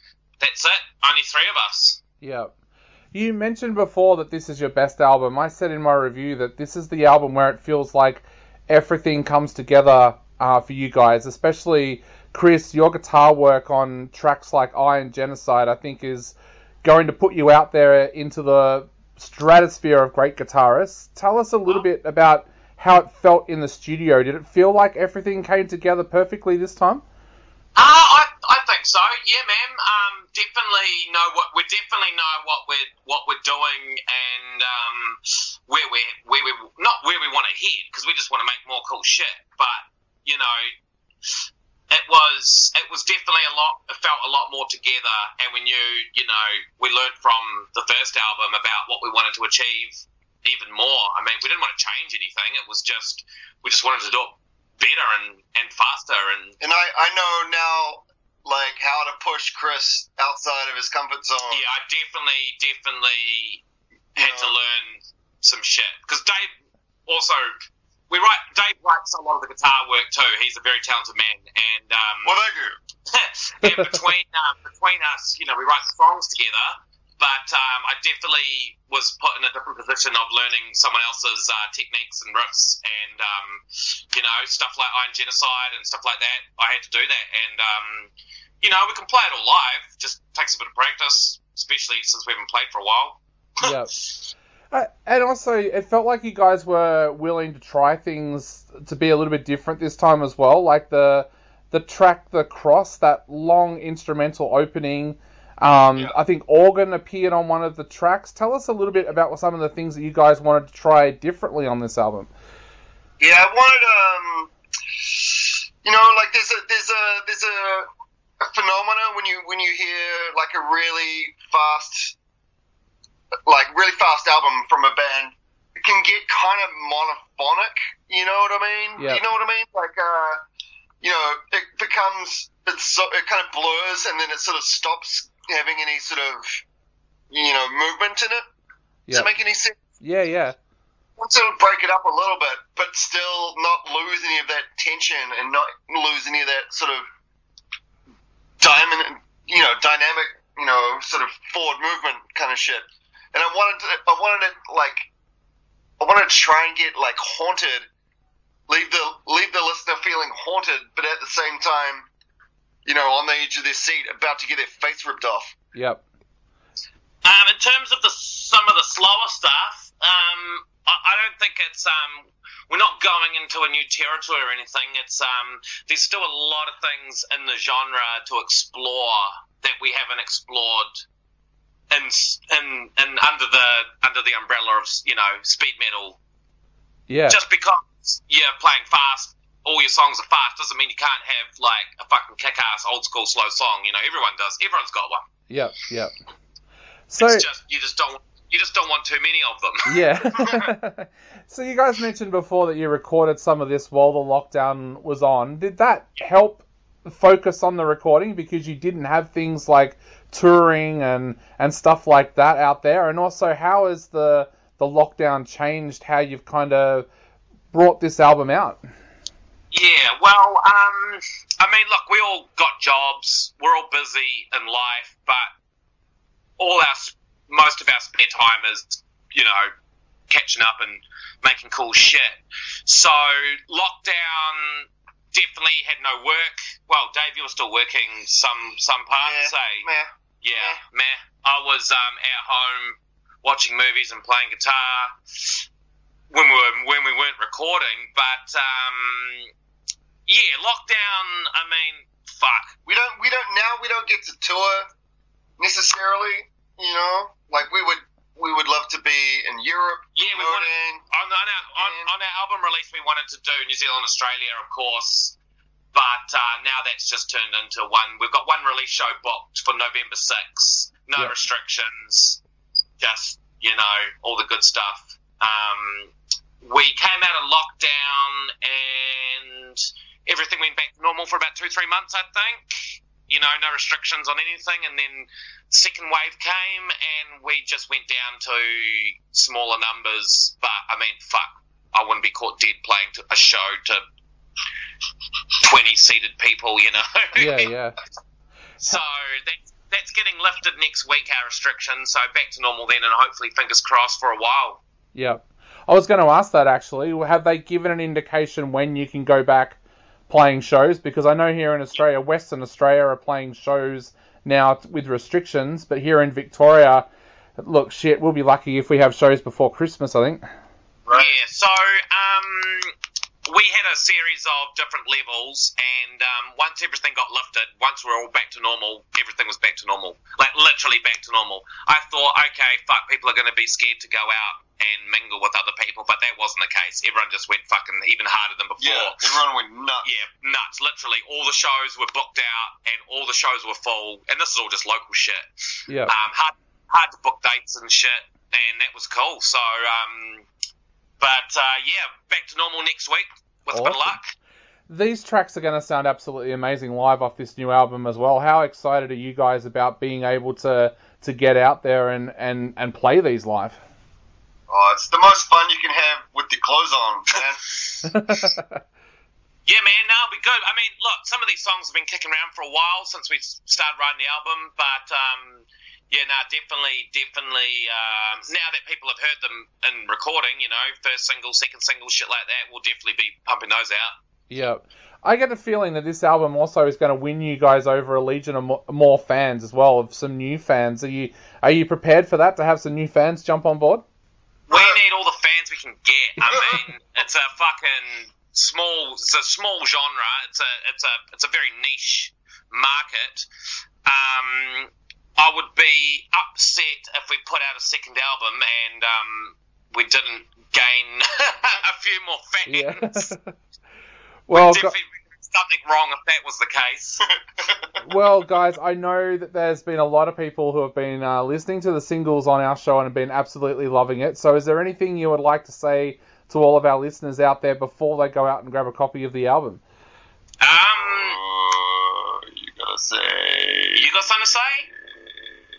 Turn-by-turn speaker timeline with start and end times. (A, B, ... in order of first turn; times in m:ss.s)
0:00.4-0:02.0 A
0:02.2-0:02.5 B
0:03.1-0:27.0 B
0:27.8-0:40.6 A
0:41.9-0:56.6 A
0:56.6-1:01.6 C
1:01.5-1:03.6 A
1:04.1-1:06.4 A
1:04.2-1:04.5 C
1:07.1-1:07.5 A
1:08.1-1:12.3 A
1:12.2-1:12.7 C
1:13.1-1:28.1 A
1:28.6-1:34.3 A
1:33.6-1:33.9 B
1:34.7-1:52.3 B
1:53.2-1:54.5 C
1:55.0-1:57.8 C
1:58.4-2:02.2 C
2:03.4-2:10.4 C
2:09.0-2:09.2 B
2:11.0-2:16.6 C
2:17.3-2:18.5 C
2:19.1-2:19.8 C
2:20.0-2:20.6 B
2:21.2-2:27.0 C
2:28.6-2:35.1 C
2:36.0-2:37.8 C
2:38.7-2:42.1 C
2:42.8-2:45.5 C
2:45.7-2:46.0 B
2:47.2-3:00.9 A
3:01.9-3:06.2 A
3:07.1-3:07.4 B
3:07.3-3:15.3 A
3:15.5-3:16.1 B
3:17.1-3:17.5 B
3:17.2-3:20.0 A
3:19.9-3:37.1 B
3:37.7-3:38.8 B
3:39.7-3:45.5 A
3:46.6-3:49.7 A
3:50.3-3:59.8 A
3:59.2-4:00.8 C
4:00.4-4:05.6 A
4:06.3-4:09.5 A
4:10.3-4:12.7 A
4:12.8-4:14.9 C
4:15.6-4:21.0 C
4:20.2-4:25.4 A
4:21.7-4:22.1 C
4:25.9-4:32.4 A
4:33.0-4:54.0 A
4:55.6-4:57.7 A
4:57.4-4:58.0 B
4:58.8-5:04.8 A
5:05.1-5:09.8 B
5:10.3-5:20.4 B
5:21.0-5:21.3 C
5:21.1-5:22.9 A
5:23.5-5:39.4 A
5:38.8-5:40.1 C
5:40.0-5:45.4 A
5:45.9-5:46.1 B
5:46.1-5:50.4 A
5:51.2-5:54.3 A
5:53.7-5:54.2 B
5:54.9-6:03.8 B
6:04.7-6:07.6 C
6:08.0-6:08.8 B
6:09.6-6:24.1 A
6:24.5-6:34.0 B
6:34.7-6:43.4 A
6:44.0-6:53.3 A
6:52.6-6:53.6 B
6:54.5-6:54.9 B
6:54.5-6:57.2 A
6:57.6-6:57.9 C
6:58.0-7:09.8 B
7:10.6-7:11.4 A
7:10.9-7:14.1 C
7:14.0-7:14.8 A
7:15.0-7:15.4 C